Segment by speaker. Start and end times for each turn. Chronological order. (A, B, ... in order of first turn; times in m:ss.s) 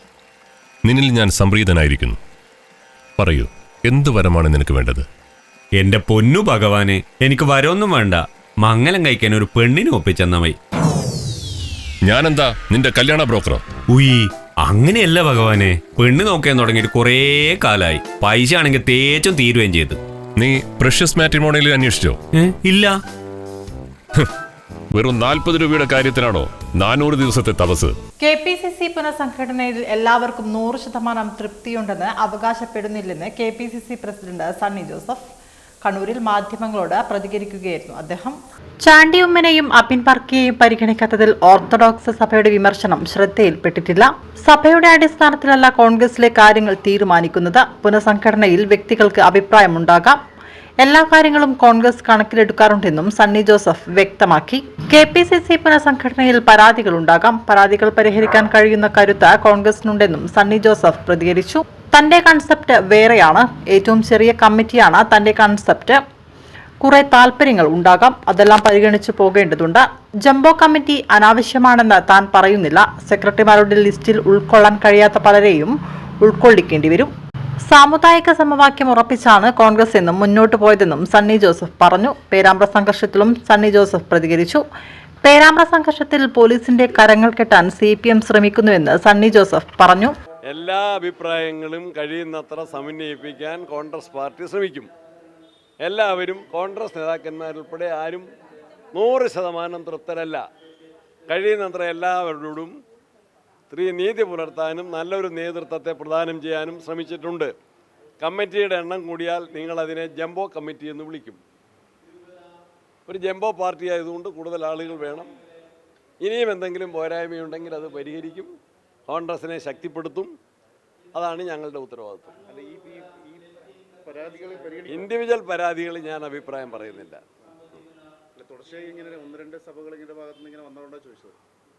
0:00.8-0:02.2 A
0:03.2-0:05.1 A
0:05.8-0:10.6 B
0:12.0-0:13.6 A
0:13.9-0:20.0 B
0:20.4-0:22.2 A
0:22.3-0:23.0 B
0:24.9-0:28.0 A
0:28.2-0:35.2 C
0:35.8-0:50.2 C
0:50.8-1:06.0 C
1:06.8-1:17.1 C
1:17.7-1:24.6 C
1:25.2-1:30.1 C
1:30.5-1:34.9 D
1:35.8-1:38.2 D
1:38.9-1:40.4 D
1:41.3-1:42.7 D
1:43.7-1:47.5 D
1:48.2-1:51.4 D
1:53.1-1:55.3 D
1:56.2-1:58.5 D
1:59.1-2:00.3 D
2:01.1-2:02.4 D
2:02.5-2:03.5 E
2:04.0-2:05.1 E
2:04.9-2:07.2 D
2:08.4-2:11.4 E